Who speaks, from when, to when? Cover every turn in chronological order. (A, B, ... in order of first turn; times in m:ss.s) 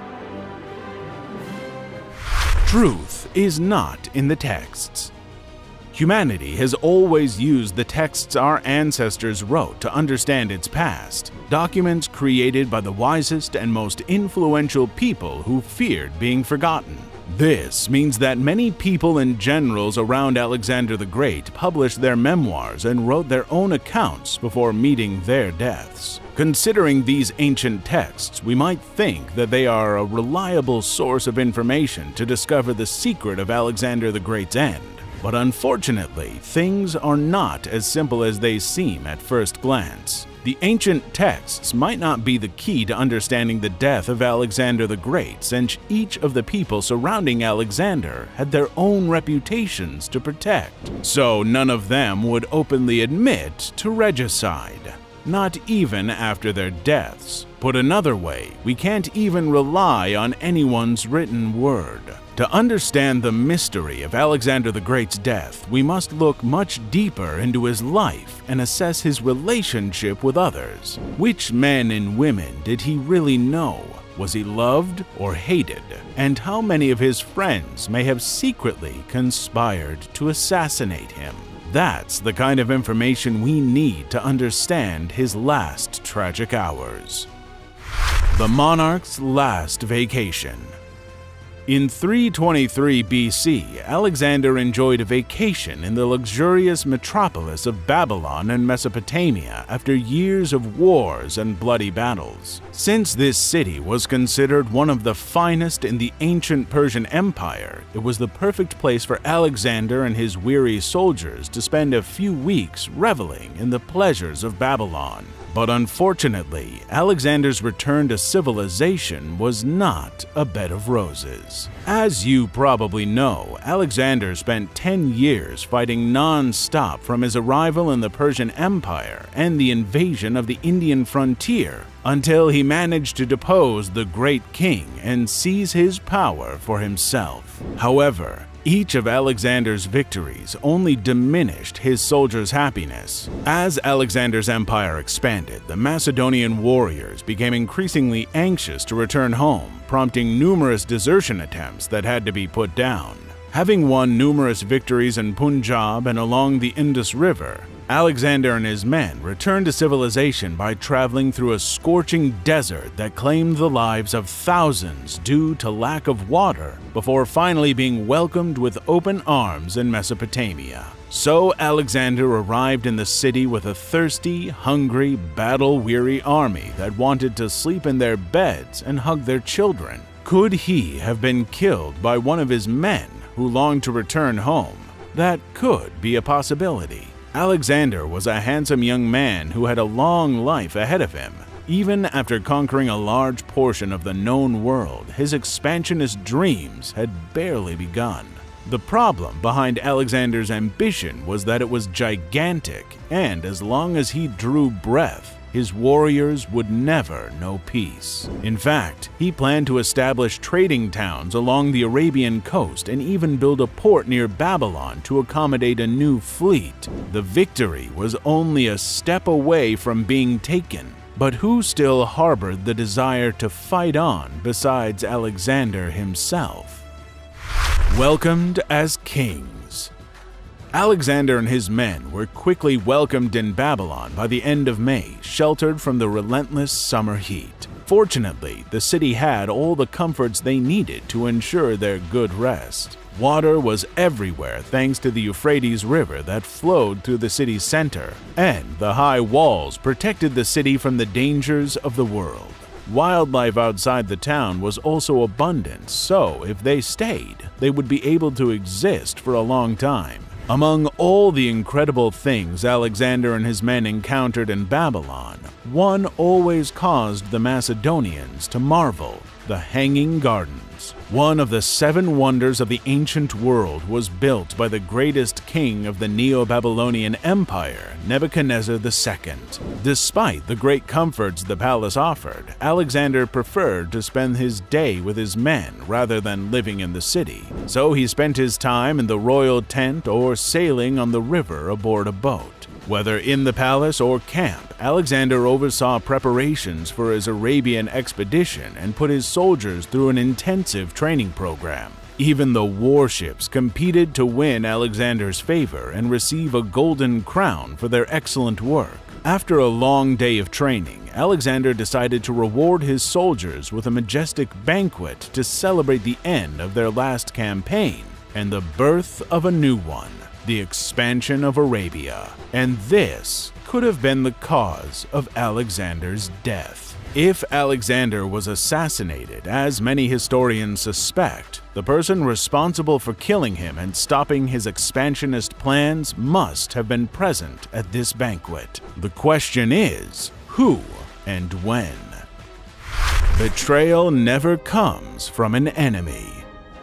0:02.6-0:05.1 A
0:05.9-1:27.3 A
1:28.3-1:30.8 A
1:31.7-3:46.8 A
3:47.9-3:49.9 A
3:50.7-5:42.2 A
5:43.3-5:46.5 A